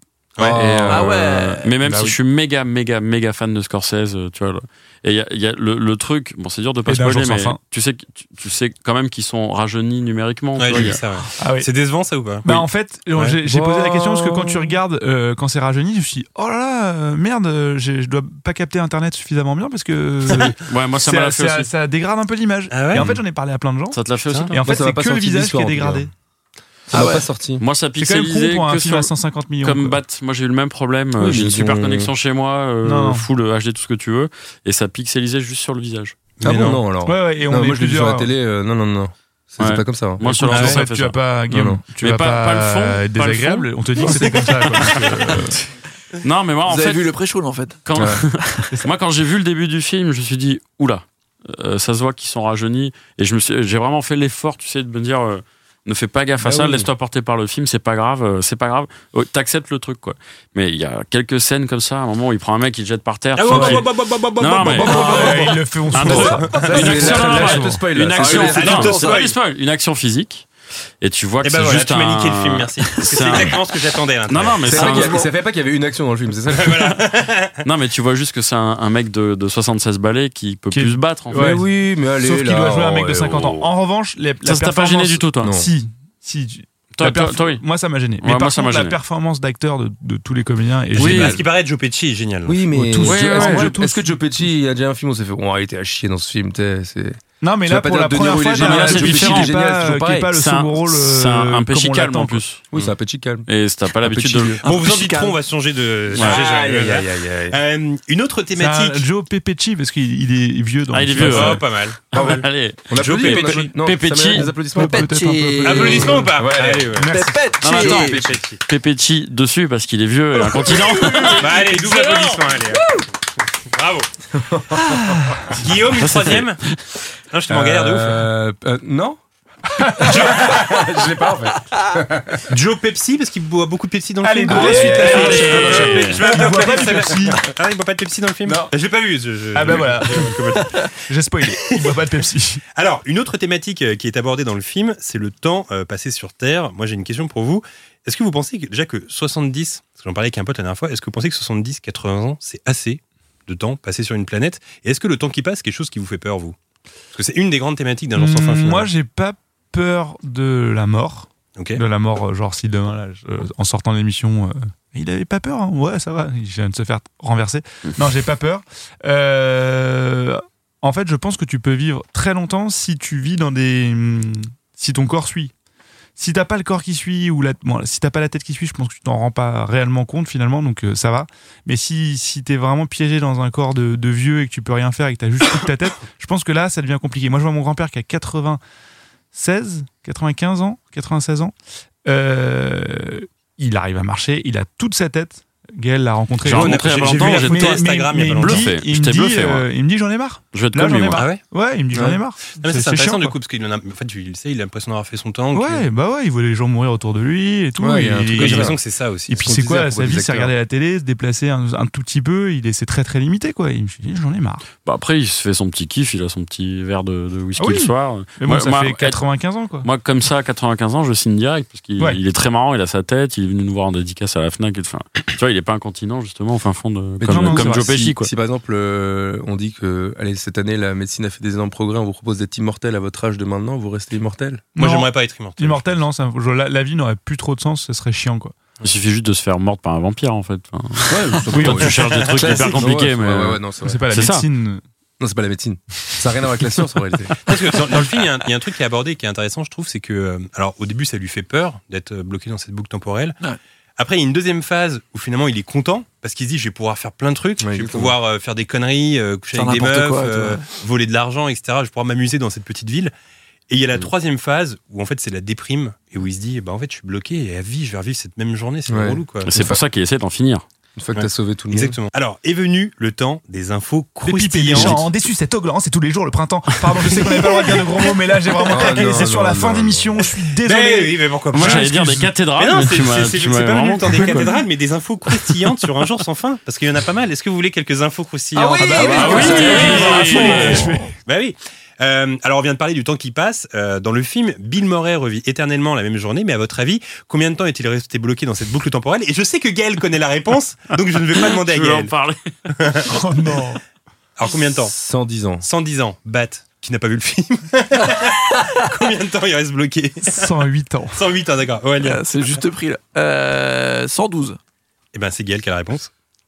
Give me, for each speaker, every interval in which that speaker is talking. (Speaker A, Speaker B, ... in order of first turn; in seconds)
Speaker A: 0.4-0.7, 10.6-13.4, 22.7-23.1, 24.3-24.6, 36.4-36.8, 40.5-40.8, 44.1-44.9, 63.4-67.3, 68.1-69.3, 71.4-75.1, 76.5-77.6, 91.0-92.6, 104.6-109.1, 111.2-113.8, 115.6-118.6, 121.4-122.9, 123.7-124.1, 125.5-126.6, 127.3-128.3, 130.0-130.8, 132.5-140.9, 141.5-142.0, 142.8-156.6, 157.1-158.9, 161.6-161.8, 196.4-198.8, 201.1-201.4, 202.6-205.8, 208.3-209.5, 234.8-236.0, 241.6-242.9, 247.4-253.4, 254.0-263.1, 263.7-269.5, 271.1-275.1, 280.6-302.1, 302.7-303.1, 304.4-304.9, 305.6-310.5, 311.1-312.6, 315.1-316.1
Speaker B: 0.4-1.3, 13.4-14.8, 24.6-26.1, 26.9-27.6, 31.2-32.1, 36.4-40.3, 41.5-41.8, 47.9-48.2, 56.4-56.9, 66.6-69.0, 74.7-76.8, 81.3-83.7, 85.4-85.7, 92.5-100.3, 102.7-103.5, 104.0-104.6, 106.1-107.6, 112.1-115.1, 116.2-117.1, 117.8-118.4, 124.3-124.9, 127.5-129.2, 129.8-132.5, 134.5-136.2, 138.4-138.7, 201.9-202.2, 207.8-208.8, 209.4-210.5, 227.2-234.7, 241.1-244.1, 245.2-247.4, 257.6-258.1, 268.9-269.8, 271.0-272.0, 278.7-280.2, 304.9-305.7
Speaker C: 0.5-11.0, 20.4-21.7, 23.9-24.6, 27.6-36.2, 39.6-41.2, 42.0-44.4, 46.2-47.1, 47.9-70.5, 71.0-73.7, 74.3-75.2, 77.6-81.5, 84.5-85.5, 87.0-87.7, 88.2-89.0, 91.0-91.4, 93.0-93.8, 98.5-99.5, 100.3-102.7, 103.5-104.6, 106.1-106.4, 110.9-114.5, 117.6-122.5, 125.6-126.8, 134.9-136.4, 196.4-197.8, 198.4-199.7, 200.5-201.3, 214.8-219.2, 219.8-228.3, 238.8-244.5, 269.5-270.6, 281.5-284.6, 289.0-290.9, 301.3-302.8
Speaker D: 0.9-1.7, 26.9-27.3, 46.7-47.8, 68.2-69.3, 74.8-75.3, 104.6-105.4, 114.8-116.4, 117.0-118.2, 121.2-121.6, 259.5-260.7, 288.6-290.4, 312.0-314.6
Speaker E: 1.8-2.2, 6.9-7.6, 11.4-11.7, 12.4-24.0, 24.5-26.1, 28.0-30.0, 32.8-33.2, 37.0-38.3, 40.2-45.6, 63.5-63.8, 64.7-67.8, 80.7-81.6, 82.2-91.4, 92.7-94.5, 97.4-102.4, 108.5-111.6, 114.4-116.2, 117.0-117.3, 125.0-125.4, 129.8-130.1, 134.2-137.4, 139.6-140.4, 141.0-142.6, 158.2-175.5, 176.2-188.6, 189.3-191.5, 192.1-203.4, 205.5-208.8, 209.3-214.6, 217.6-219.9, 227.3-227.8, 234.8-238.5, 243.8-244.8, 274.2-282.3, 288.6-291.1, 303.1-303.8, 310.2-311.2